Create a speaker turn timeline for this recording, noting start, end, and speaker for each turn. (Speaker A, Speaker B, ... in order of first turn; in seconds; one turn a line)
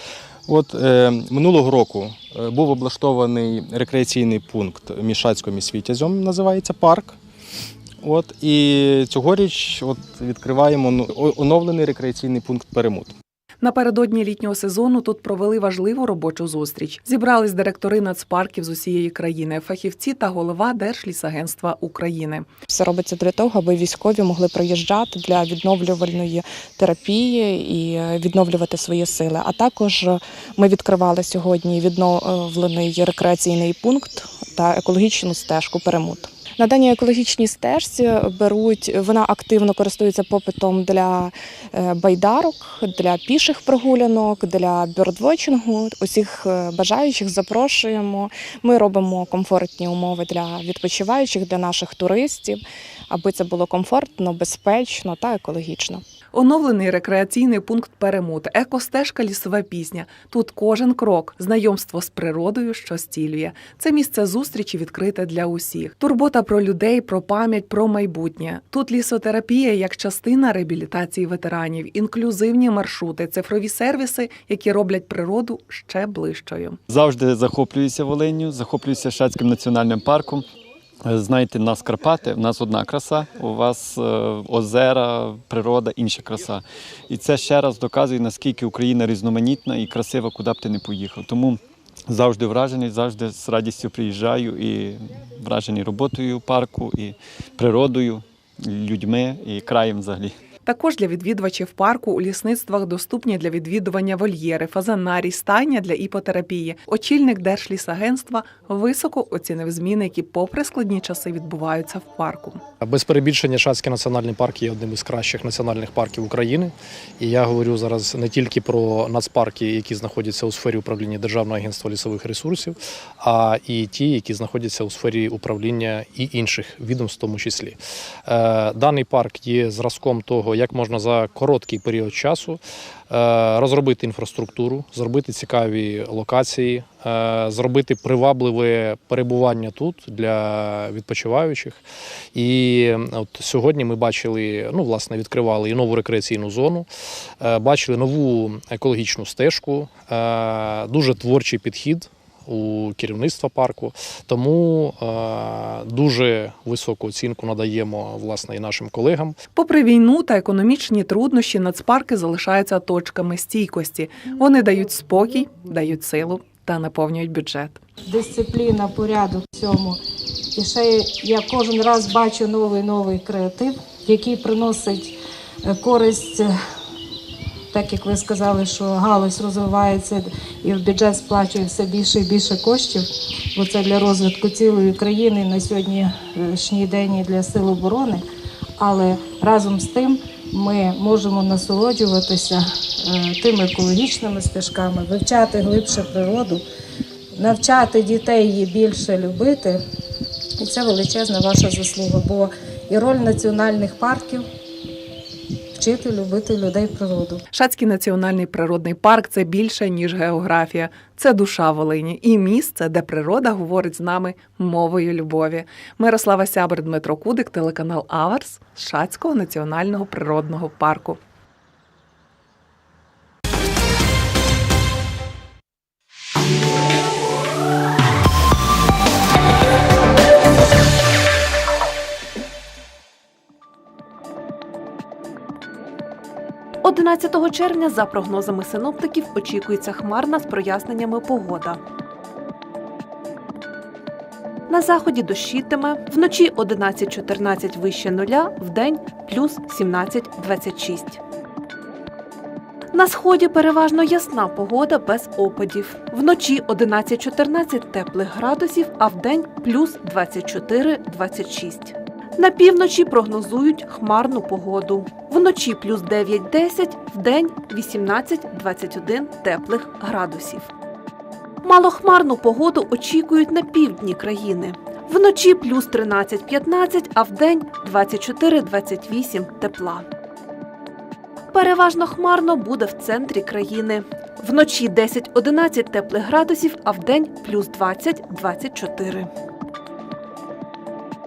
Speaker A: 0.5-7.2
Speaker A: 8.0-13.2
Speaker B: 13.6-22.5
Speaker C: 22.7-56.0
Speaker B: 56.3-76.8
Speaker D: 76.9-80.5
Speaker D: 81.0-100.4
Speaker B: 100.7-112.6
Speaker E: 112.8-141.8
Speaker E: 142.3-146.9
Speaker E: 147.4-159.4
Speaker B: 159.5-167.8
Speaker F: 168.1-170.0
Speaker F: 170.5-175.1
Speaker F: 175.6-176.5
Speaker F: 177.7-188.2
Speaker F: 188.8-196.6
Speaker F: 197.3-199.8
Speaker F: 200.6-204.5
Speaker F: 205.8-207.4
Speaker B: 207.5-221.2
Speaker G: 236.8-241.8
Speaker G: 244.7-251.2
Speaker G: 252.9-270.7
Speaker G: 271.6-280.0
Speaker G: 281.5-289.3